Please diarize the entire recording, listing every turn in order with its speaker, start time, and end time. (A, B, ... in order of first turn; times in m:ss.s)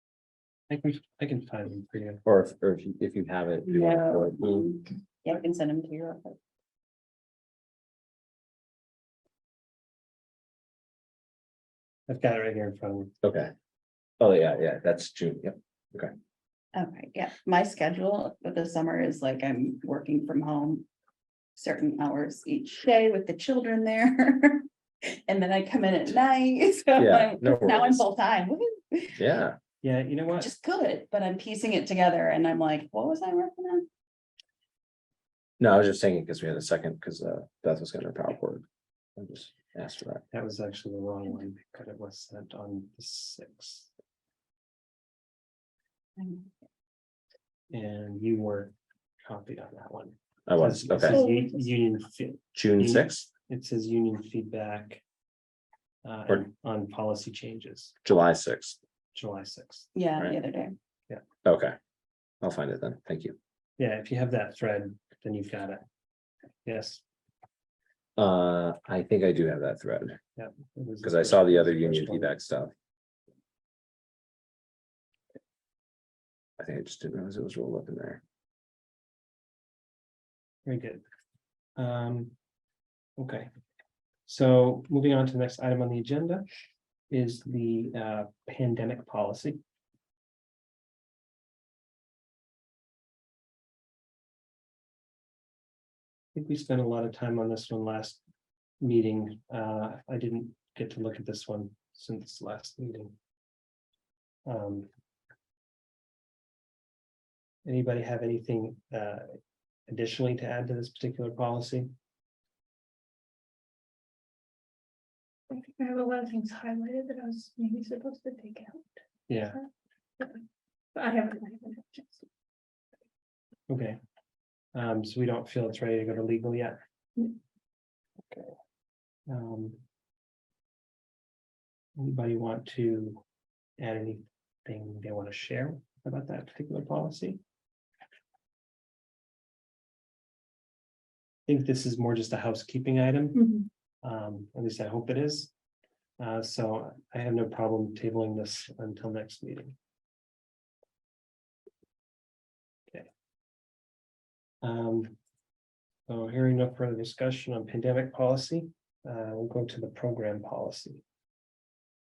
0:00.7-0:02.2 A
0:02.2-0:04.7 B
0:03.7-0:06.4 C
0:12.1-0:13.1 A
0:13.2-0:13.5 B
0:14.2-0:16.1 B
0:16.7-0:20.8 C
0:21.6-0:29.2 C
0:27.0-0:28.0 B
0:29.2-0:29.6 B
0:29.8-0:30.5 A
0:30.4-0:33.9 C
0:35.6-0:38.6 B
0:39.2-0:40.2 B
0:40.3-0:43.9 A
0:46.2-0:46.5 C
0:47.7-0:48.7 A
0:49.2-0:55.0 A
0:50.5-0:51.2 B
0:51.1-0:51.5 D
0:52.5-0:53.3 B
0:56.0-0:57.9 A
0:58.0-0:58.8 B
0:59.1-0:59.9 A
0:59.9-1:00.8 C
1:01.4-1:01.8 B
1:02.4-1:03.4 B
1:03.8-1:05.8 A
1:06.6-1:07.0 A
1:08.2-1:10.2 B
1:10.4-1:12.3 A
1:11.0-1:12.7 B
1:16.6-1:18.2 B
1:20.6-1:21.0 A
1:21.8-1:22.3 A
1:23.2-1:23.5 A
1:24.2-1:26.4 A
1:27.1-1:29.6 A
1:36.3-1:38.2 A
1:38.8-1:43.1 A
1:44.4-1:44.9 A
1:47.6-1:49.4 A
1:49.9-1:51.9 A
1:55.5-1:59.0 D
1:59.3-1:59.6 A
2:00.9-2:02.2 D
2:03.7-2:04.0 A
2:04.7-2:06.8 A
2:09.3-2:09.8 A
2:12.0-2:13.2 A
2:13.8-2:17.4 A
2:21.5-2:23.4 A
2:23.4-2:23.7 D
2:24.0-2:25.5 A
2:26.2-2:29.8 A
2:34.6-2:35.2 A
2:36.1-2:41.0 A